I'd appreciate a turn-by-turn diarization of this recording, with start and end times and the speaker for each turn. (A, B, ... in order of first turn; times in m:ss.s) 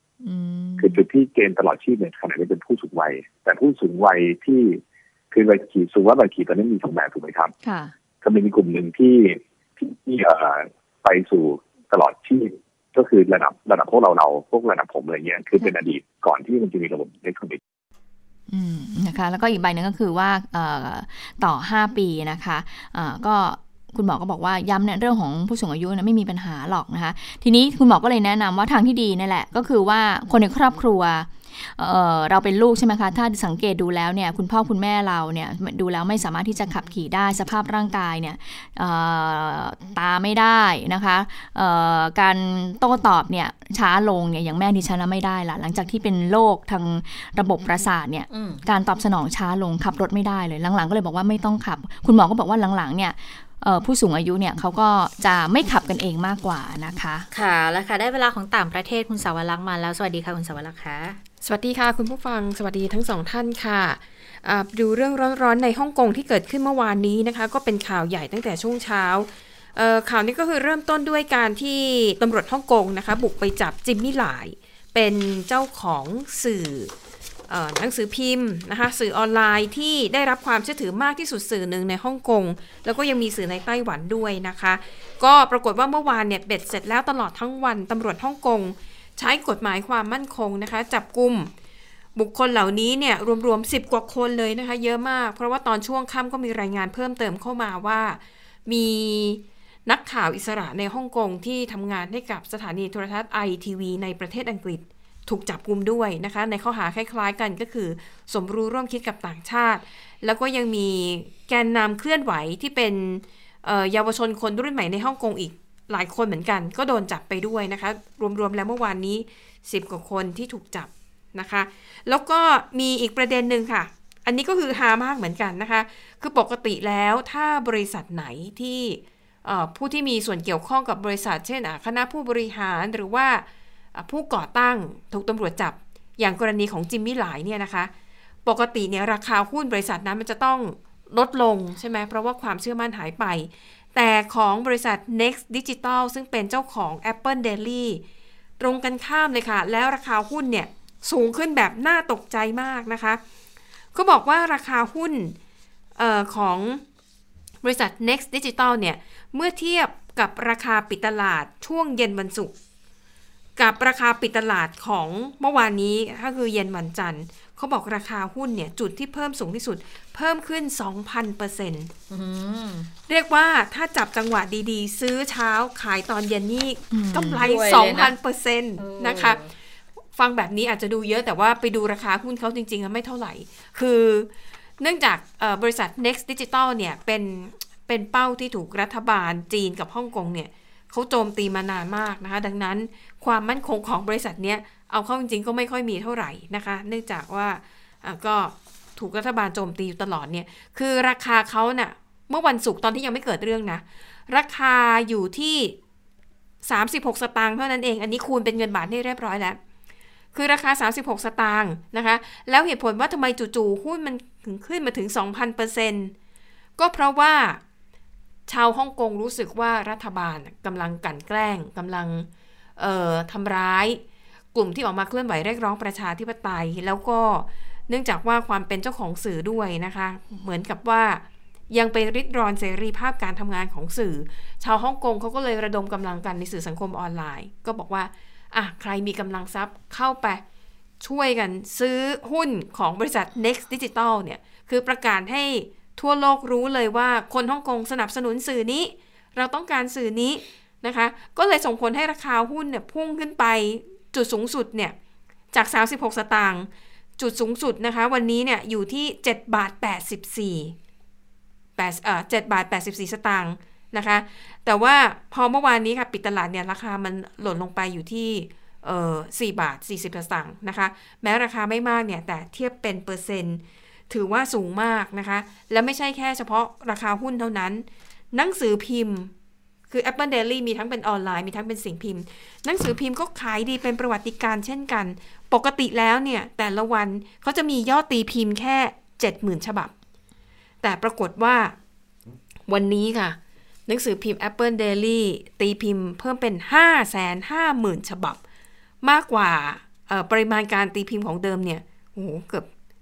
0:00.2-0:01.0 A
0:00.8-0:07.5 B
0:07.6-0:07.9 A
0:08.2-0:17.6 B
0:18.5-0:57.3 A
0:48.3-0:48.6 C
0:57.3-1:01.2 C
1:01.4-1:16.9 D
1:17.5-1:31.5 D
1:32.1-2:17.9 D
2:18.4-2:28.0 D
2:28.6-2:33.2 D
2:33.9-2:35.3 D
2:36.0-2:36.8 D
2:37.6-2:42.5 D
2:43.6-2:51.9 D
2:52.1-2:52.9 C
2:53.1-2:59.4 D
2:56.9-2:57.4 A
2:57.2-2:58.1 C
2:58.8-2:59.5 C
3:00.1-3:25.8 D
3:26.6-3:29.6 D
3:30.3-3:36.1 D
3:36.8-3:37.6 D
3:38.5-3:44.0 D
3:44.5-4:00.4 D
4:01.0-4:14.9 D
4:15.5-4:20.7 D
4:21.8-4:39.3 D
4:39.9-4:49.9 D
4:50.8-4:51.7 D
4:52.6-4:58.4 D
4:59.0-5:02.7 D